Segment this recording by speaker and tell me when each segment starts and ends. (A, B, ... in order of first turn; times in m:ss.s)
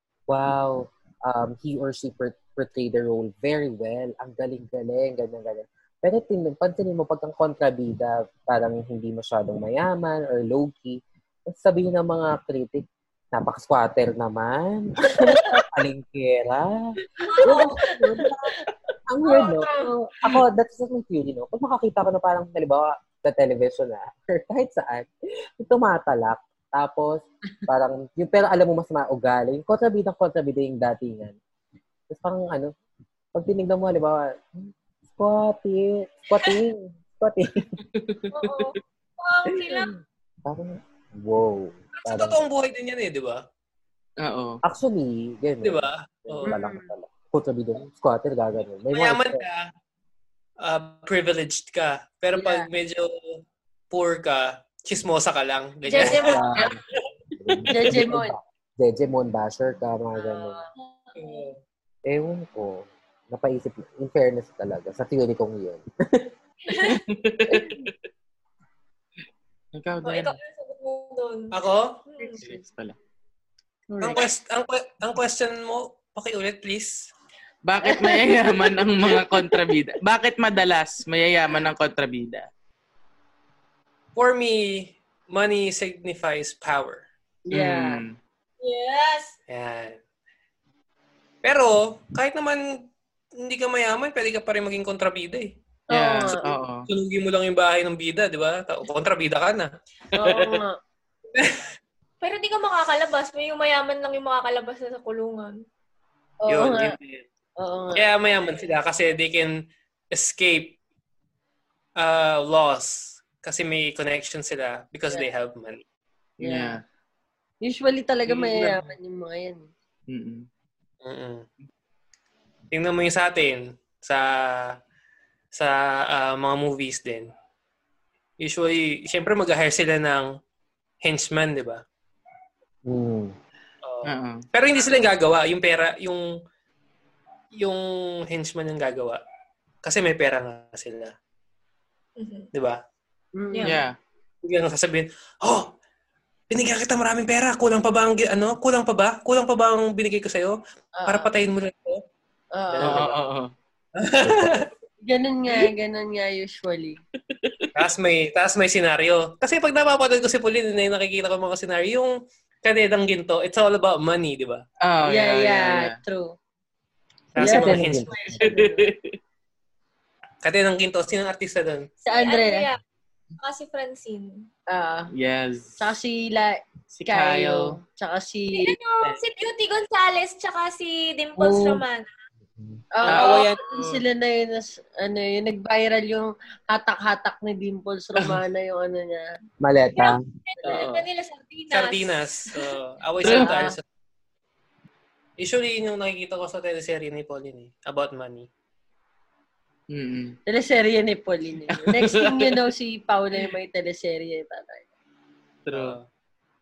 0:00.3-0:25.1 A
0:15.2-0:15.6 B
0:17.2-0:17.9 C
0:17.3-0:17.7 B
0:19.2-0:20.1 B
0:25.6-0:31.4 A
0:32.1-0:32.7 A
0:33.3-0:37.7 A
0:37.8-0:38.7 D
0:38.3-0:39.9 C
0:39.5-0:39.8 A
0:40.4-0:42.4 A
0:42.0-0:43.4 E
0:44.2-0:44.6 D
0:44.6-0:49.4 A
0:45.6-0:46.6 E
0:46.4-0:46.9 B
0:48.9-0:49.7 E
0:50.6-0:56.7 E
0:52.4-0:52.7 B
0:55.9-0:56.7 C
0:56.0-0:56.8 A
0:57.4-1:00.6 A
0:57.7-0:58.3 B
1:00.2-1:00.7 B
1:01.1-1:01.4 C
1:01.2-1:01.6 E
1:02.0-1:06.3 A
1:06.7-1:07.0 C
1:06.7-1:07.9 D
1:09.7-1:10.4 D
1:10.0-1:11.6 C
1:11.5-1:12.0 E
1:12.1-1:12.4 C
1:12.4-1:13.0 D
1:13.9-1:14.2 B
1:14.0-1:17.1 E
1:17.6-1:22.5 D
1:17.8-1:19.7 B
1:24.1-1:27.0 E
1:27.5-1:28.0 B
1:27.5-1:28.2 D
1:28.6-1:29.3 C
1:29.5-1:30.0 E
1:31.4-1:35.5 E
1:35.9-1:36.5 B
1:35.9-1:36.9 D
1:36.9-1:39.7 E
1:40.1-1:40.8 B
1:40.2-1:40.6 D
1:41.3-1:41.7 E
1:42.2-1:45.6 C
1:46.4-1:46.9 B
1:46.5-1:47.2 E
1:47.6-1:48.3 B
1:47.9-1:49.5 E
1:50.1-1:50.8 E
1:52.0-1:55.8 E
1:56.4-1:56.8 B
1:56.4-1:56.8 D
1:57.6-1:59.6 B
1:58.3-1:58.9 D
2:00.1-2:00.5 D
2:01.0-2:01.4 E
2:02.7-2:04.8 E
2:05.5-2:07.3 E
2:08.4-2:10.3 E
2:11.0-2:11.8 E
2:12.8-2:13.3 A
2:13.8-2:16.3 E
2:14.1-2:14.4 D
2:17.6-2:19.2 E
2:19.8-2:21.1 E
2:22.2-2:22.5 C
2:22.5-2:22.8 E
2:23.4-2:23.8 B
2:23.5-2:23.8 C
2:23.6-2:23.9 D
2:24.4-2:25.7 E
2:26.5-2:32.0 E
2:31.0-2:31.3 B
2:32.5-2:33.2 B
2:32.7-2:33.1 E
2:32.8-2:33.5 D
2:34.0-2:34.7 E
2:34.2-2:34.7 A
2:35.0-2:37.0 B
2:37.7-2:44.6 E
2:44.8-2:46.0 D
2:45.0-2:46.3 B
2:47.3-2:48.2 E
2:47.4-2:48.5 A
2:47.4-2:48.9 B
2:48.4-2:49.2 D
2:50.4-2:51.9 E
2:52.0-2:52.7 B
2:52.1-2:52.8 C
2:53.4-2:54.5 C
2:54.7-2:55.1 B
2:55.1-2:55.8 D
2:55.8-2:58.7 B
2:56.9-2:57.7 D
2:58.5-3:02.0 C
3:02.9-3:09.2 B
3:03.0-3:04.0 D
3:03.1-3:03.5 C
3:09.6-3:10.2 A
3:10.0-3:12.8 C
3:10.6-3:11.0 D
3:11.7-3:13.8 E
3:13.2-3:13.6 D
3:13.2-3:13.8 B
3:15.4-3:18.5 E
3:19.9-3:20.4 D
3:20.5-3:24.8 B
3:21.7-3:22.6 D
3:25.6-3:26.0 D
3:25.7-3:26.1 E